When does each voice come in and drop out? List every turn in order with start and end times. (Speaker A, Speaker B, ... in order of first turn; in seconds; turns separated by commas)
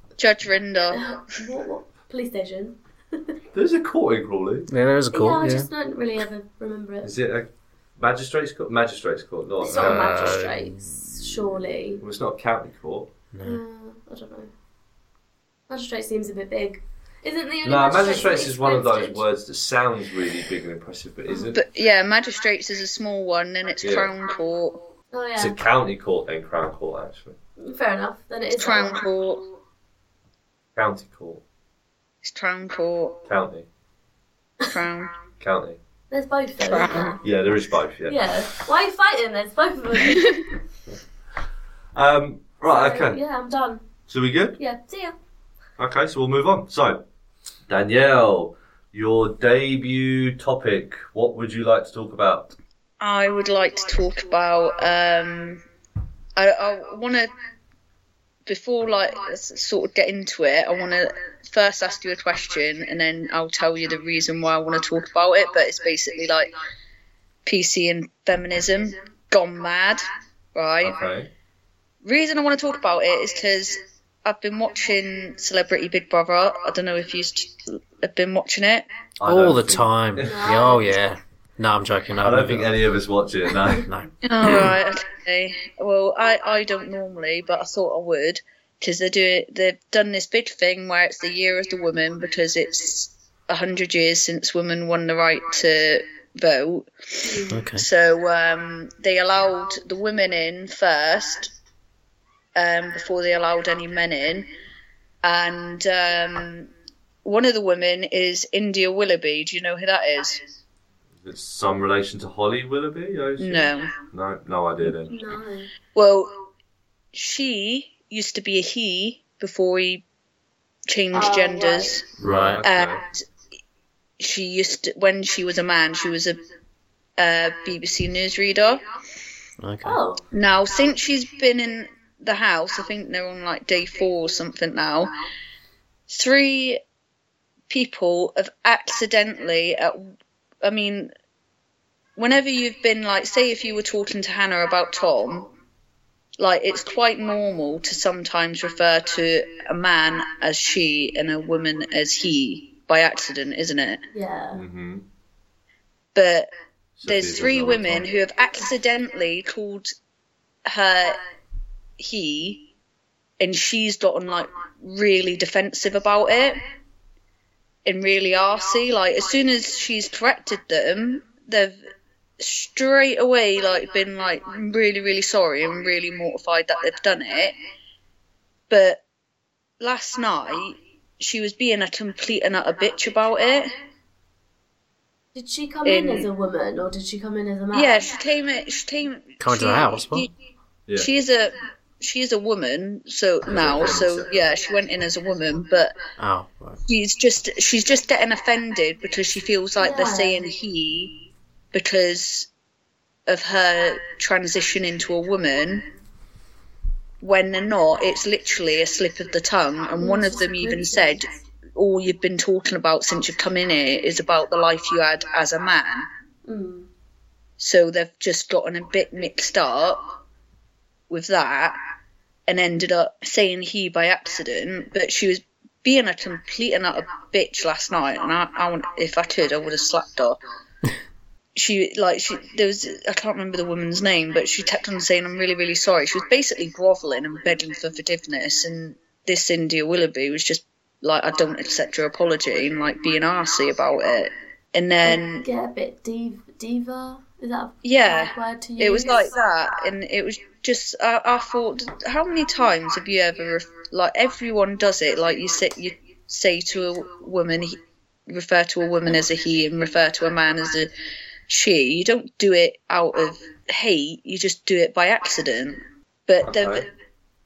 Speaker A: 0.2-1.2, Speaker B: 0.9-3.3, Speaker C: 3.5-4.7, Speaker D: 4.7-5.7, Speaker B: 5.1-7.1, Speaker C: 7.0-10.4, Speaker B: 9.6-12.0, Speaker D: 9.7-11.2, Speaker C: 12.0-13.1, Speaker D: 13.3-13.6, Speaker B: 13.4-14.5, Speaker B: 15.7-19.2, Speaker C: 17.6-21.6, Speaker A: 21.5-24.8, Speaker C: 23.8-24.1, Speaker B: 25.1-25.6, Speaker C: 25.4-27.4, Speaker B: 27.6-29.0, Speaker A: 28.6-29.5, Speaker C: 30.8-31.4, Speaker A: 32.2-33.2, Speaker C: 33.3-33.7, Speaker A: 34.7-35.1, Speaker C: 35.4-35.8, Speaker B: 36.1-37.2, Speaker A: 36.7-37.1, Speaker C: 37.2-38.3, Speaker B: 38.1-40.5, Speaker C: 42.0-43.2, Speaker B: 42.7-43.8, Speaker C: 44.1-44.6, Speaker B: 44.6-45.2, Speaker C: 45.8-47.0, Speaker C: 47.7-52.5, Speaker A: 53.0-55.6, Speaker A: 56.4-57.3, Speaker A: 58.5-66.5, Speaker A: 67.5-71.0, Speaker C: 70.8-71.3, Speaker A: 72.0-78.9, Speaker C: 79.2-80.7, Speaker D: 79.2-82.7, Speaker B: 80.2-80.9, Speaker C: 82.2-83.9, Speaker D: 83.9-84.7, Speaker A: 84.2-101.5, Speaker B: 97.2-97.6, Speaker D: 97.5-97.9, Speaker A: 102.6-104.5, Speaker A: 105.2-106.7, Speaker A: 107.2-110.4, Speaker C: 111.2-115.1, Speaker A: 113.4-114.0, Speaker B: 115.1-115.7, Speaker A: 115.9-116.3, Speaker A: 117.1-120.0, Speaker A: 120.9-122.0, Speaker B: 121.1-122.0, Speaker C: 122.2-123.0, Speaker D: 122.2-122.6, Speaker A: 122.6-123.2, Speaker A: 124.2-126.4, Speaker A: 127.2-128.8, Speaker D: 129.6-130.0, Speaker B: 129.8-130.2, Speaker A: 130.3-135.1, Speaker A: 136.1-136.8, Speaker A: 137.7-141.1, Speaker A: 142.2-145.5, Speaker A: 146.4-154.0, Speaker B: 154.1-154.6, Speaker C: 154.5-155.0, Speaker A: 156.2-156.5, Speaker C: 157.0-158.1, Speaker A: 157.1-159.9, Speaker A: 160.7-161.2, Speaker A: 162.0-162.6, Speaker A: 163.4-166.6, Speaker A: 167.9-171.8, Speaker A: 172.4-177.5, Speaker A: 178.7-179.0, Speaker A: 179.8-183.7, Speaker B: 185.3-188.1, Speaker A: 185.8-186.3, Speaker A: 187.7-190.3, Speaker D: 189.4-190.3, Speaker A: 191.0-195.9, Speaker C: 193.5-194.3, Speaker D: 196.2-196.8, Speaker A: 196.9-201.1, Speaker B: 199.8-200.5, Speaker A: 201.7-202.5, Speaker A: 203.3-205.8, Speaker A: 207.2-216.1, Speaker B: 210.0-211.2, Speaker B: 216.5-216.9, Speaker A: 217.6-220.0, Speaker A: 221.1-221.8, Speaker A: 222.5-230.4, Speaker A: 231.6-245.4, Speaker B: 245.0-249.3, Speaker A: 247.8-260.9, Speaker A: 261.5-266.9, Speaker C: 266.4-266.9